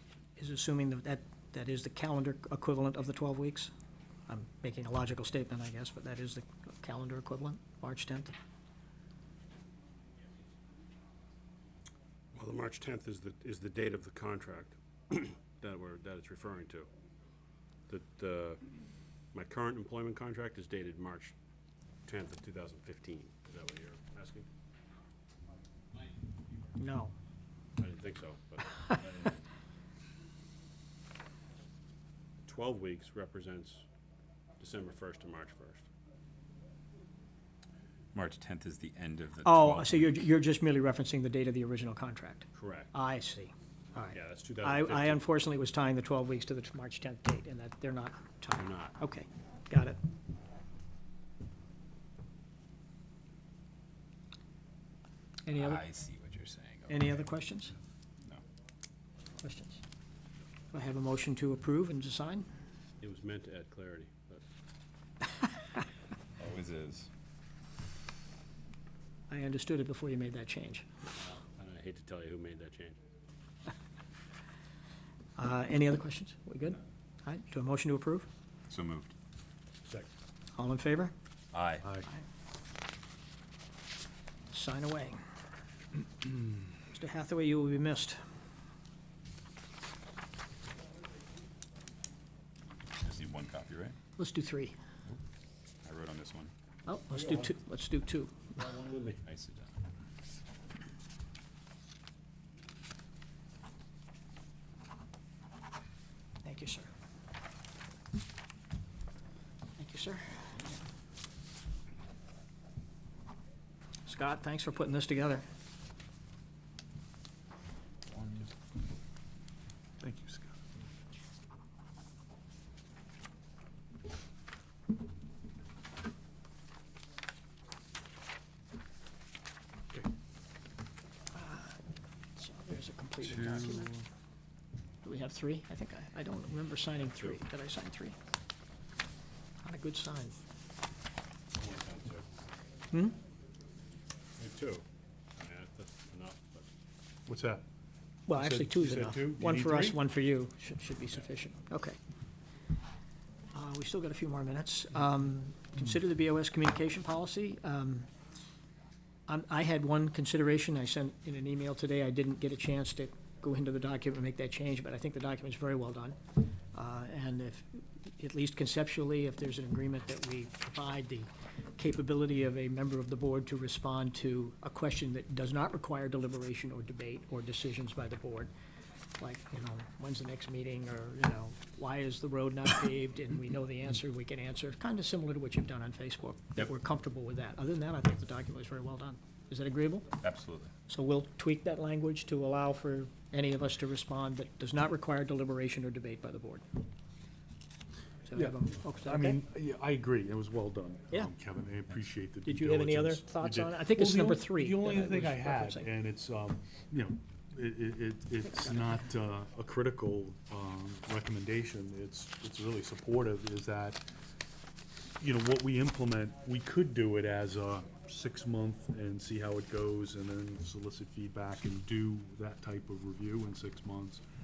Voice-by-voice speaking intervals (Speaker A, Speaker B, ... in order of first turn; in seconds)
Speaker A: 0.4-3.7, 4.3-8.3, 26.8-27.1, 39.5-50.0, 55.5-55.8, 56.9-57.7, 59.4-59.8, 60.7-62.5, 69.3-70.9, 75.4-78.3, 80.6-81.1, 84.5-85.2, 86.9-88.2, 94.2-94.8, 96.9-98.3, 106.4-106.9, 109.8-110.4, 114.1-115.5, 131.3-131.8, 132.3-134.0, 135.0-138.2, 139.6-140.4, 142.9-143.2, 148.3-152.0, 153.5-158.1, 159.3-166.2, 166.7-178.5, 179.2-190.1, 190.9-196.7, 198.2-199.4, 202.4-205.9, 208.4-209.0
Speaker B: 12.3-16.9, 17.9-18.6, 19.3-21.3, 22.1-24.5, 27.8-29.4, 32.5-33.8, 34.6-35.9, 42.5-42.9, 44.1-45.2, 48.5-49.0, 63.0-64.4, 71.1-73.0, 98.8-99.2, 137.1-137.4, 141.5-142.2, 144.4-144.8, 145.3-146.7
Speaker C: 38.1-40.2, 55.5-57.2, 66.4-67.1, 78.7-79.1, 81.5-81.8, 93.0-94.0, 95.8-96.5, 99.2-99.7, 118.1-118.5, 133.3-134.0, 190.2-190.7
Speaker D: 97.2-97.5, 98.6-98.9, 120.0-120.6, 147.3-147.6, 148.3-150.0, 198.3-214.0, 215.2-224.2